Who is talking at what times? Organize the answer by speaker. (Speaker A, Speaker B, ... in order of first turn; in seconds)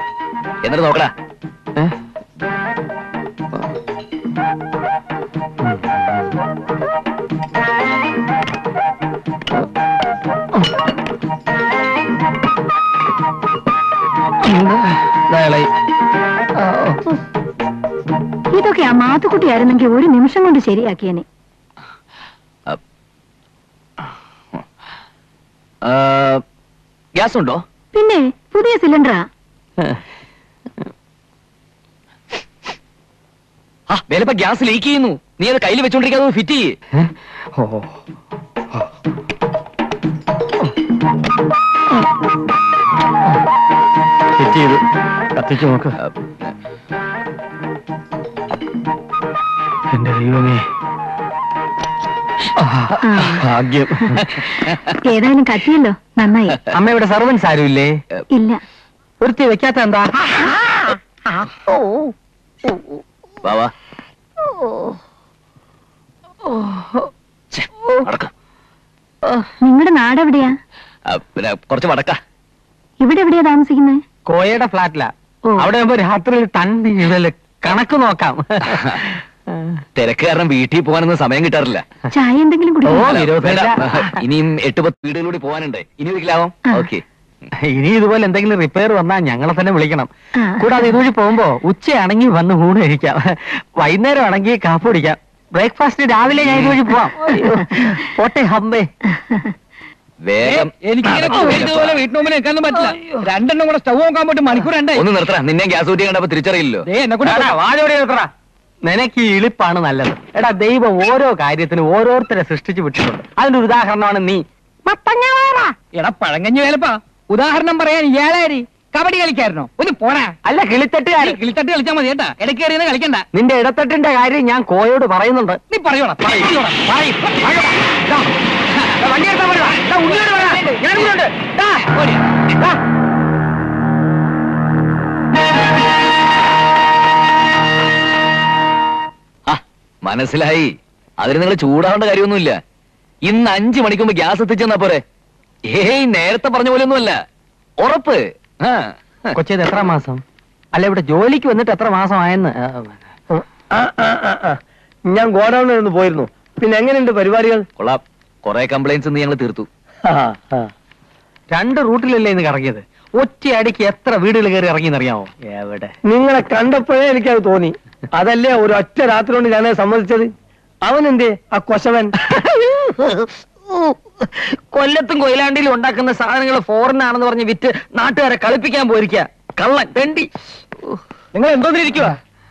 Speaker A: 0.6-1.1, 25.9-26.4, 27.2-27.6, 33.9-36.7, 46.0-46.5, 63.4-63.7, 67.5-68.3, 71.1-72.2, 78.7-79.1, 80.0-81.8, 83.0-87.0, 96.4-96.8, 100.2-102.0, 104.9-106.8, 139.5-142.6, 143.2-145.0, 145.7-147.2, 147.8-149.3, 157.8-159.7
Speaker B: 14.4-15.7, 16.6-17.0, 36.9-38.0, 44.4-44.8, 45.3-46.0, 49.9-50.6, 52.6-54.4, 56.7-58.0, 59.2-60.3, 61.6-62.1, 66.5-67.1, 74.2-79.8, 82.8-84.1, 87.7-98.9, 107.2-108.3, 108.8-115.7, 120.4-121.4, 123.3-125.6, 126.8-127.7, 130.2-131.2, 149.3-150.2, 150.7-153.0, 161.5-165.9, 172.3-180.3
Speaker C: 18.5-21.2, 27.9-29.3, 53.0-53.4, 55.1-56.6, 58.3-58.6, 69.6-70.6, 73.0-74.0, 82.1-83.2, 90.4-90.7, 99.2-99.5
Speaker D: 100.4-105.1, 106.8-107.5, 115.8-120.3, 121.2-123.2, 125.7-127.6, 129.0-132.6
Speaker E: 153.3-157.7, 160.1-160.7, 166.0-170.3, 170.8-172.1, 181.3-182.2